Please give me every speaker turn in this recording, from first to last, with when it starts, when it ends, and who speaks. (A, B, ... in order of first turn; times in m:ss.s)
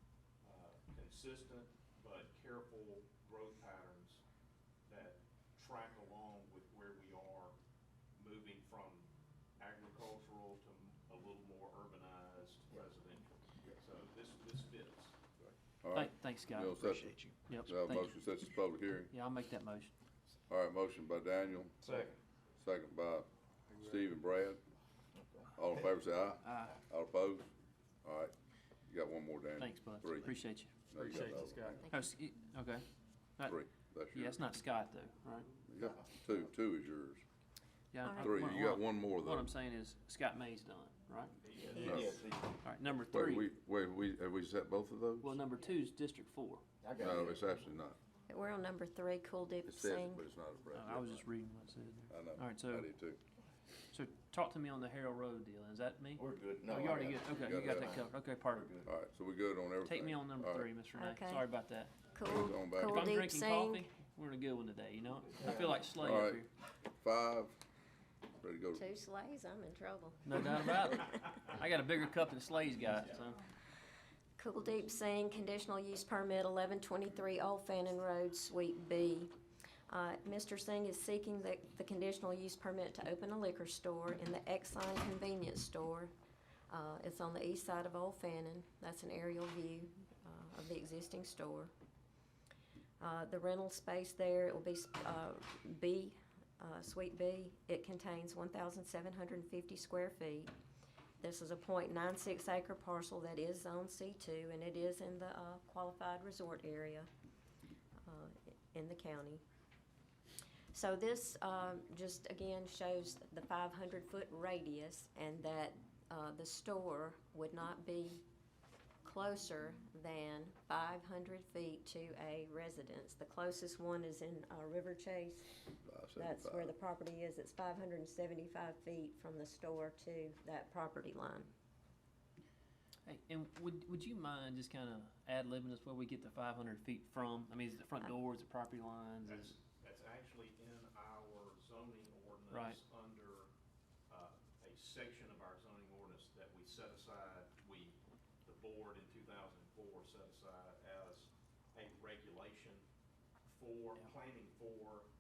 0:00.4-0:04.2 A
0:04.9-0:07.5 A
0:08.2-0:09.1 A
0:09.6-0:15.2 A
0:15.8-0:19.1 B
0:15.9-0:18.2 C
0:19.1-0:19.9 C
0:20.5-0:21.8 B
0:21.8-0:22.2 D
0:22.6-0:24.6 B
0:25.2-0:25.5 D
0:25.6-0:27.5 B
0:26.4-0:26.8 C
0:28.0-0:28.3 B
0:28.9-0:30.4 B
0:29.6-0:32.8 C
0:30.9-0:32.0 B
0:33.4-0:34.4 B
0:34.1-0:35.5 C
0:35.7-0:37.2 B
0:37.9-0:42.0 C
0:38.0-0:38.6 E
0:38.2-0:39.5 B
0:41.4-0:42.2 A
0:41.7-0:42.6 D
0:41.8-0:42.2 B
0:42.6-0:43.4 C
0:43.1-0:45.4 B
0:45.2-0:46.6 C
0:46.8-0:47.6 D
0:47.0-0:48.0 B
0:48.3-0:50.2 E
0:49.6-0:51.2 B
0:50.7-0:52.9 C
0:52.1-0:53.2 B
0:53.9-0:58.7 C
0:56.2-0:58.9 D
0:57.2-0:58.0 B
0:58.8-1:00.7 B
0:59.8-1:02.0 C
1:00.9-1:01.4 E
1:02.1-1:03.8 E
1:02.2-1:03.1 B
1:02.8-1:06.5 C
1:05.3-1:05.8 D
1:06.0-1:06.4 B
1:07.0-1:07.6 B
1:08.4-1:08.8 B
1:08.7-1:11.4 E
1:10.2-1:13.4 C
1:14.4-1:19.3 E
1:19.9-1:26.1 E
1:26.7-1:31.7 E
1:33.0-1:40.5 E
1:41.2-1:47.1 E
1:48.0-1:49.4 E
1:50.7-1:58.2 E
1:59.0-2:05.6 E
2:05.8-2:06.7 B
2:06.2-2:11.5 E
2:13.0-2:19.5 C
2:19.2-2:23.5 A
2:22.5-2:22.8 C
2:24.1-2:32.8 A
2:33.4-2:35.1 A